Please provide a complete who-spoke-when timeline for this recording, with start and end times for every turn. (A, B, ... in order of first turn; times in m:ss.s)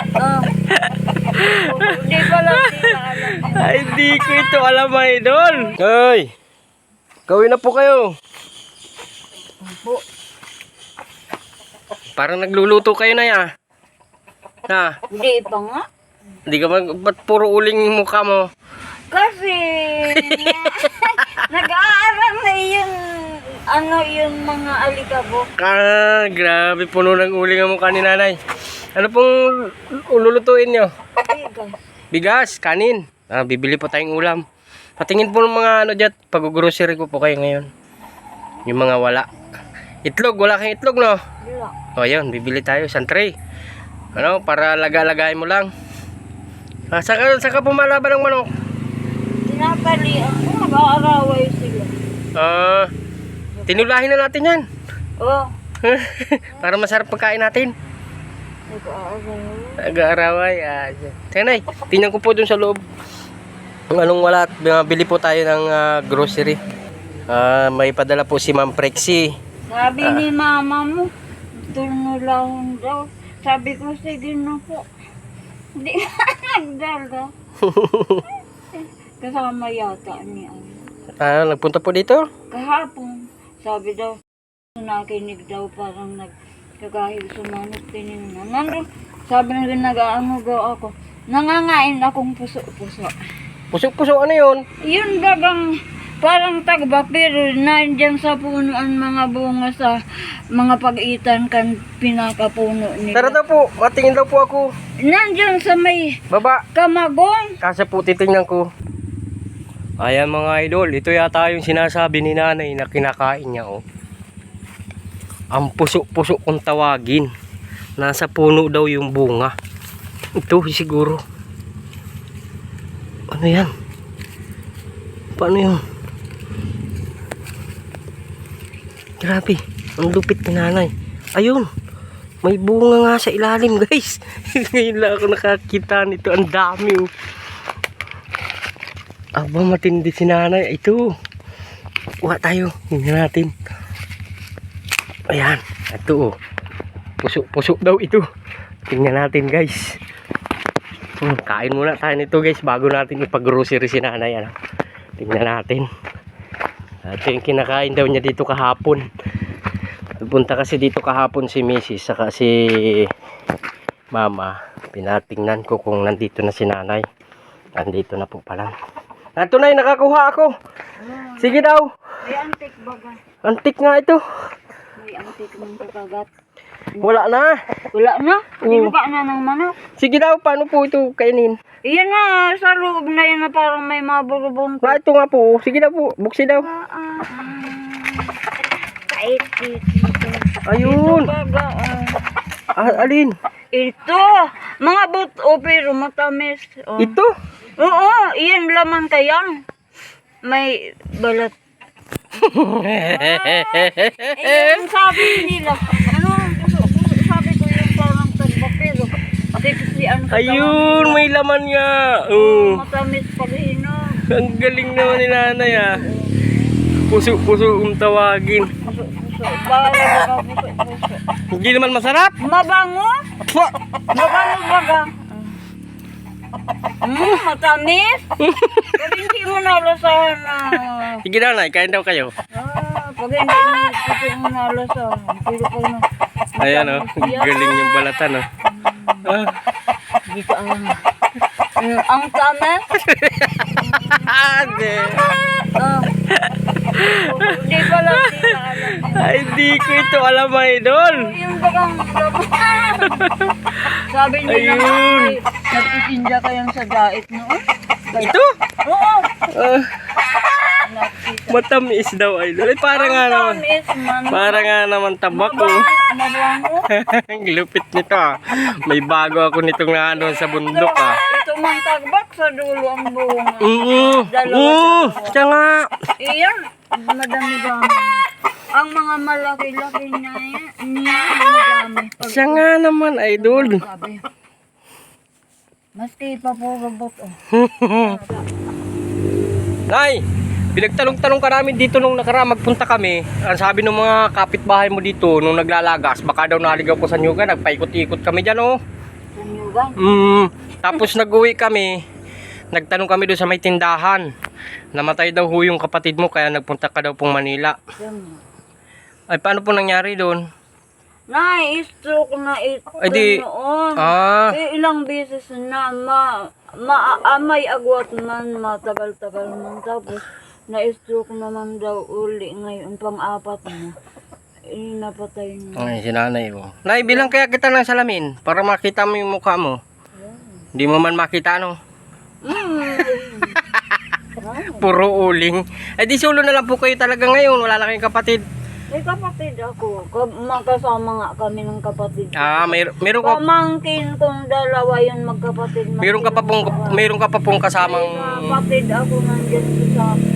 0:00.2-0:00.5 A
0:00.7-0:06.3 B
0:01.5-0:03.9 A
0:05.5-0:05.7 A
0:07.3-0:08.1 B
0:09.6-0:10.0 A
0:12.2-0:13.4 B
0:14.7-0:15.0 B
0:15.1-0:15.8 A
0:16.5-0:18.4 B
0:19.1-0:25.5 A
0:20.1-0:20.8 B
0:25.6-0:28.4 B
0:29.0-0:30.9 B
0:31.2-0:31.8 A
0:32.1-0:34.4 B
0:35.0-0:37.7 B
0:38.7-0:39.3 B
0:40.0-0:41.2 B
0:41.4-0:41.8 A
0:42.0-0:43.4 B
0:44.1-0:45.7 B
0:46.9-0:48.5 B
0:49.4-0:52.0 A
0:52.4-0:52.9 B
0:53.6-0:53.9 A
0:53.7-0:54.6 B
0:55.2-0:55.5 A
0:55.8-0:57.7 B
0:58.7-0:59.9 A
0:59.8-1:02.8 B
1:03.9-1:06.6 B
1:07.3-1:09.3 B
1:09.7-1:11.1 A
1:10.0-1:10.3 B
1:11.6-1:14.9 A
1:15.8-1:17.3 A
1:17.6-1:18.2 B
1:18.8-1:20.9 A
1:21.2-1:22.2 B
1:22.5-1:24.2 A
1:24.8-1:33.1 A
1:33.7-1:34.6 B
1:34.8-1:35.7 A
1:36.2-1:40.0 A
1:40.6-1:43.4 A
1:43.1-1:44.7 B
1:45.0-1:46.2 A
1:46.3-1:46.6 B
1:46.7-1:47.6 A
1:47.6-1:48.7 B
1:50.0-1:53.8 B
1:55.5-1:57.3 B
1:58.0-1:59.5 B
2:00.4-2:01.2 B
2:03.3-2:03.7 B
2:05.4-2:05.8 B
2:09.2-2:11.7 B
2:12.4-2:17.1 B
2:19.4-2:21.0 B
2:22.2-2:23.5 B
2:25.3-2:26.3 B
2:27.2-2:28.2 B
2:28.9-2:30.0 B
2:31.2-2:34.5 B
2:35.2-2:35.9 B
2:37.0-2:39.0 B
2:40.2-2:43.1 B
2:44.1-2:47.0 B
2:47.8-2:48.7 B
2:49.4-2:50.5 B
2:51.0-2:51.5 A
2:51.4-2:51.9 B
2:52.2-2:53.2 A
2:53.4-2:54.2 B
2:55.0-2:56.3 A
2:57.0-2:57.5 B
2:57.9-2:59.8 A
2:58.6-2:58.9 B
3:00.0-3:01.5 B
3:01.9-3:05.0 A
3:04.8-3:06.7 B
3:06.6-3:12.3 A
3:10.7-3:11.3 B
3:12.7-3:13.4 B
3:12.8-3:13.1 A
3:13.7-3:17.2 A
3:17.0-3:17.3 B
3:17.8-3:19.6 A
3:20.4-3:21.5 A
3:22.4-3:25.5 B
3:22.9-3:31.2 A
3:30.3-3:32.8 B
3:32.3-3:34.2 A
3:34.3-3:36.0 B
3:35.4-3:36.6 A
3:37.1-3:38.7 B
3:38.8-3:41.2 A
3:41.5-3:42.3 B
3:42.4-3:43.2 A
3:43.5-3:43.7 B
3:44.1-3:45.6 A
3:47.0-3:48.3 A
3:48.4-3:49.0 B
3:49.0-3:51.2 A
3:51.2-3:52.3 B
3:52.5-3:57.8 A
3:56.6-3:58.4 B
3:58.6-3:59.4 A
3:59.2-3:59.5 B
4:00.2-4:01.0 A
4:01.8-4:02.8 A
4:03.0-4:05.3 B
4:03.8-4:04.3 A
4:05.7-4:06.1 A
4:06.3-4:11.3 B
4:06.9-4:09.5 A
4:10.9-4:13.3 A
4:13.1-4:13.6 B
4:13.9-4:19.3 A
4:14.5-4:15.4 B
4:18.2-4:18.5 B
4:19.5-4:20.0 B
4:20.8-4:21.6 A
4:21.5-4:23.6 B
4:22.9-4:24.8 A
4:24.3-4:25.8 B
4:25.3-4:26.9 A
4:26.9-4:31.2 B
4:30.2-4:35.4 A
4:33.6-4:35.9 B
4:36.2-4:42.6 A
4:42.2-4:43.8 B
4:43.3-4:44.2 A
4:46.0-4:47.4 A
4:47.5-4:48.2 B
4:48.0-4:48.4 A
4:49.9-4:50.2 B
4:50.7-4:58.8 B
4:59.3-5:00.2 A
5:00.0-5:01.9 B
5:02.7-5:04.3 B
5:04.9-5:07.8 B
5:08.0-5:08.4 A
5:09.3-5:10.4 B
5:11.3-5:23.9 A
5:13.0-5:13.4 B
5:14.0-5:14.6 B
5:24.7-5:26.0 A
5:25.8-5:29.8 B
5:27.1-5:27.3 A
5:30.2-5:30.6 A
5:30.8-5:31.8 B
5:32.4-5:33.6 A
5:33.6-5:34.0 B
5:34.4-5:34.9 A
5:34.8-5:38.4 B
5:38.9-5:47.0 A
5:42.4-5:43.4 B
5:46.0-5:48.6 B
5:47.7-5:50.1 A